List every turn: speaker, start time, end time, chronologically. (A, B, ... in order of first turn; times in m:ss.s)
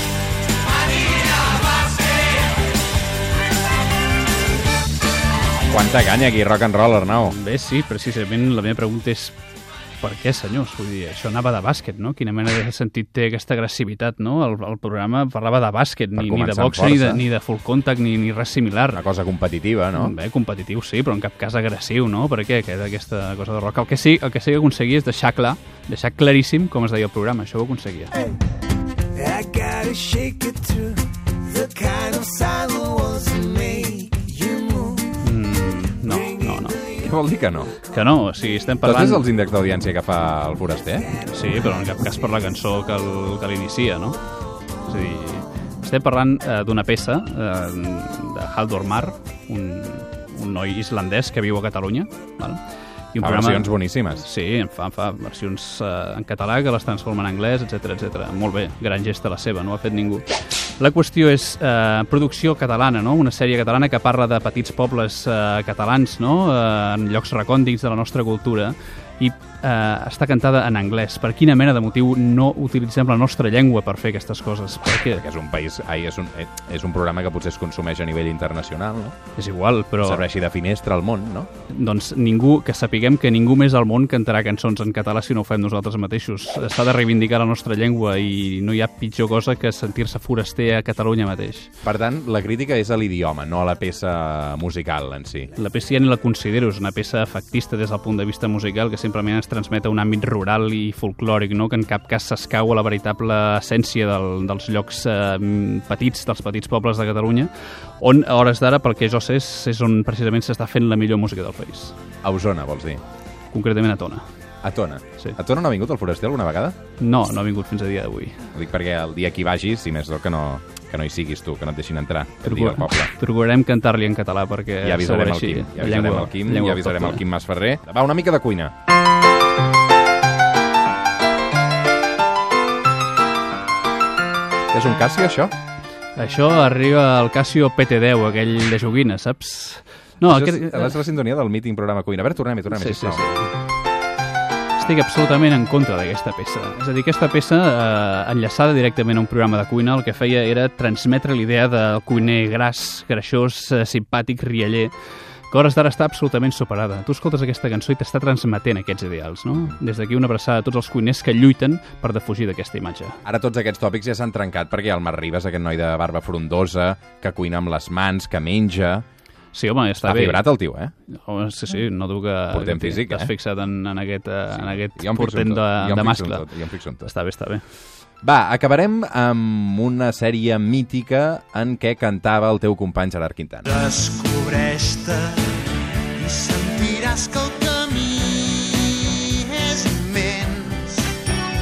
0:05.7-0:07.4 A
0:07.1-0:09.4 B
0:10.0-0:19.0 B
0:16.2-0:17.3 A
0:18.9-0:20.2 A
0:19.9-0:28.2 B
0:29.2-0:35.1 C
0:35.2-0:36.8 B
0:36.8-0:37.8 A
0:37.9-0:39.3 B
0:38.8-0:41.2 A
0:41.2-0:44.2 B
0:44.9-0:52.6 B
0:53.1-1:00.3 B
0:53.2-0:54.3 A
1:00.8-1:15.2 B
1:14.9-1:19.2 A
1:19.4-1:20.2 B
1:20.0-1:21.5 A
1:21.7-1:31.7 B
1:31.8-1:35.5 A
1:35.6-1:52.0 B
1:52.2-1:53.0 A
1:53.5-1:54.3 B
1:54.6-1:56.8 A
1:57.0-1:58.5 B
1:58.5-2:03.1 A
2:02.4-2:07.2 B
2:04.8-2:08.7 A
2:14.7-2:15.6 A
2:16.2-2:21.0 B
2:20.2-2:23.3 A
2:22.7-2:23.5 B
2:24.8-2:34.9 B
2:35.5-2:43.2 B
2:43.2-2:49.0 A
2:49.5-2:50.4 B
2:50.0-2:50.9 A
2:51.1-2:56.5 B
2:52.5-2:53.3 A
2:55.0-2:57.1 A
2:57.0-2:57.6 B
2:58.2-3:03.9 A
3:03.8-3:05.6 C
3:06.1-3:11.2 C